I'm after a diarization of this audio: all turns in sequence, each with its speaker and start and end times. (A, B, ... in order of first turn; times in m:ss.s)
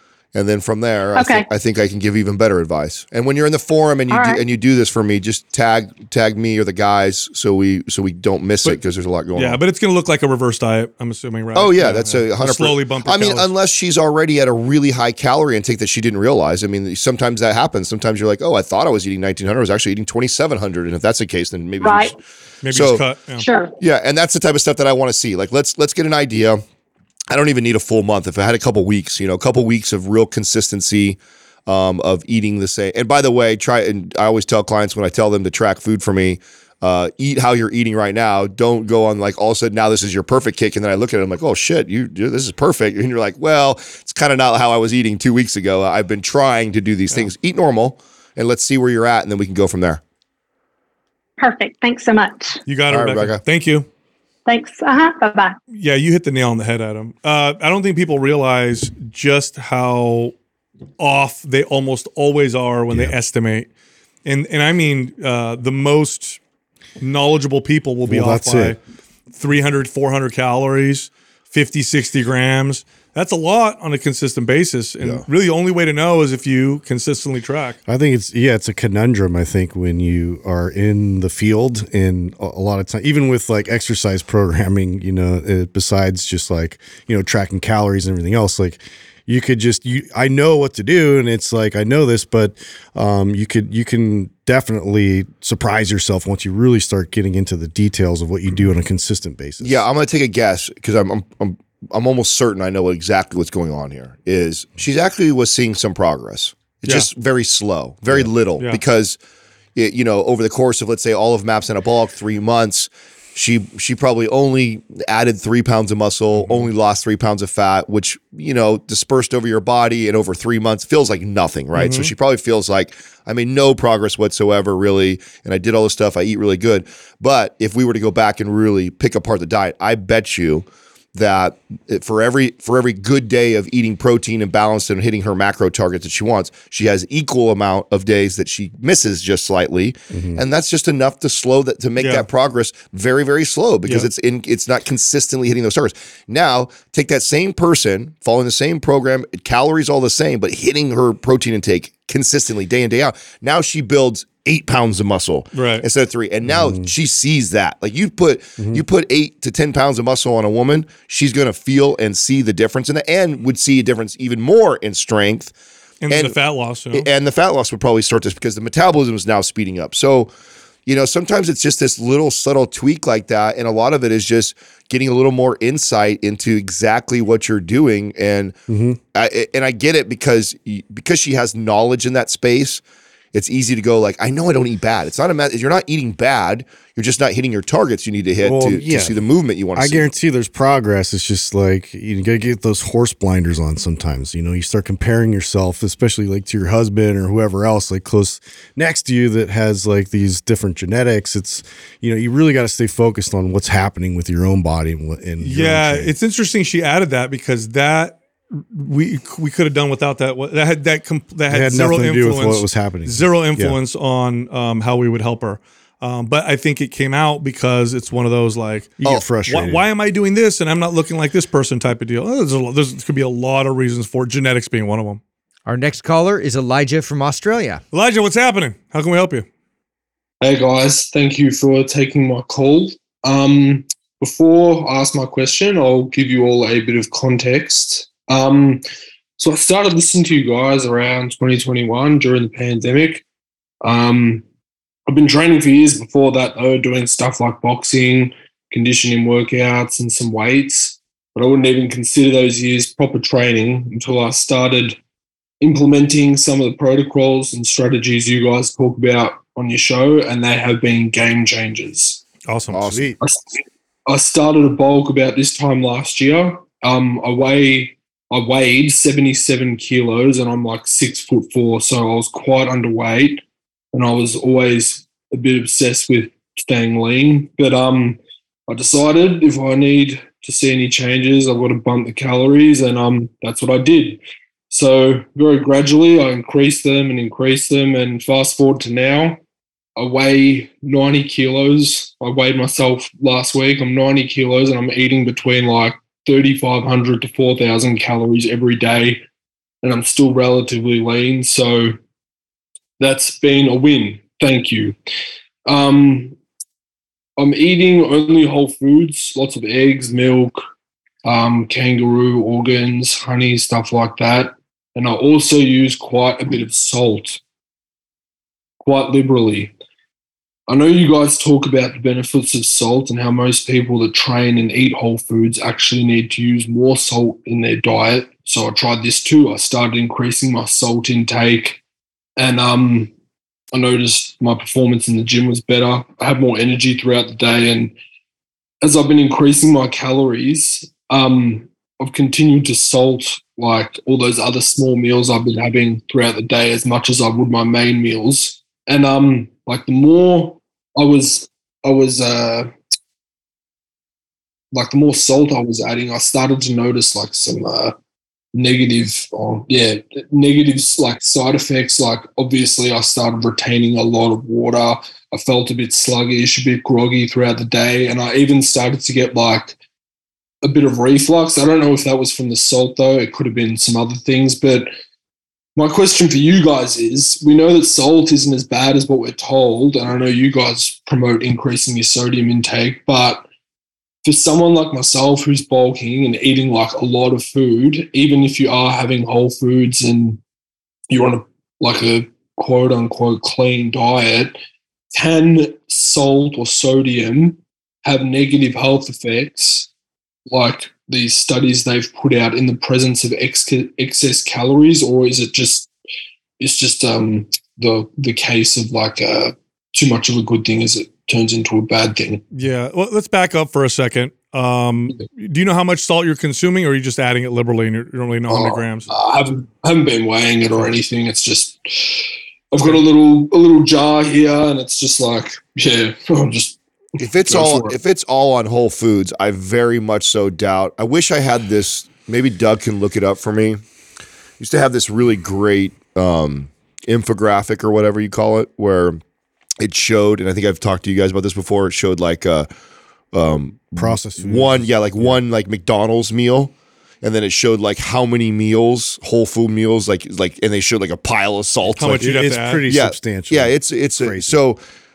0:00.3-0:09.6 A
0:01.2-0:01.5 B
0:04.1-0:04.4 B
0:09.3-0:13.5 C
0:11.6-0:22.2 A
0:21.8-0:22.2 B
0:22.6-0:23.4 C
0:22.7-0:23.0 A
0:23.4-0:23.8 B
0:23.8-0:26.6 A
0:27.3-0:50.0 A
0:51.4-0:52.6 B
0:52.7-0:53.9 C
0:52.9-0:53.4 A
0:54.5-0:55.6 B
0:55.7-1:00.3 C
1:01.0-1:03.7 C
1:04.2-1:06.4 C
1:07.0-1:08.8 C
1:08.1-1:08.8 D
1:09.3-1:17.8 C
1:17.9-1:39.8 D
1:39.6-1:49.2 A
1:49.8-2:45.5 A
1:56.4-1:56.7 C
2:01.8-2:02.1 C
2:20.1-2:20.4 D
2:22.0-2:22.3 C
2:35.5-2:35.8 C
2:36.4-2:36.9 D
2:46.0-2:47.1 C
2:46.1-2:46.4 A
2:46.9-2:50.3 A
2:50.9-2:58.6 A
2:58.7-2:59.0 D
2:59.1-3:02.8 A
3:03.3-3:10.1 A
3:08.4-3:09.2 D
3:09.8-3:26.1 D
3:25.4-3:45.2 C
3:31.5-3:33.8 D
3:39.0-3:39.9 D
3:45.7-3:47.8 E
3:47.9-3:49.4 C
3:50.4-3:58.8 F
3:59.4-4:03.2 F
4:03.8-4:04.4 F
4:05.1-4:15.0 F
4:15.6-4:22.2 F
4:22.5-4:22.8 C
4:22.7-4:23.1 A
4:22.8-4:23.2 D
4:23.2-4:49.4 F
4:50.0-4:59.2 F
4:59.8-5:02.0 F
5:03.0-5:05.0 F
5:05.7-5:06.4 F
5:07.4-5:10.6 F
5:11.2-5:17.4 F
5:18.8-5:19.7 F
5:20.7-5:31.8 F
5:32.4-5:33.1 F
5:33.7-5:37.9 F
5:38.8-5:52.8 F
5:54.7-5:58.0 F
5:58.6-6:09.8 F
6:10.6-6:14.9 F
6:15.8-6:23.5 F
6:24.3-6:30.4 F
6:31.1-6:34.6 F
6:35.2-6:39.9 F
6:40.5-6:45.9 F
6:46.6-6:52.4 F
6:52.5-6:59.1 C
6:58.5-7:08.0 F
7:07.2-7:13.8 A
7:14.6-7:19.2 A
7:19.8-7:22.7 A
7:23.3-7:32.2 A
7:24.0-7:25.4 D
7:31.9-7:34.6 D
7:32.0-7:32.8 C
7:32.9-7:34.8 A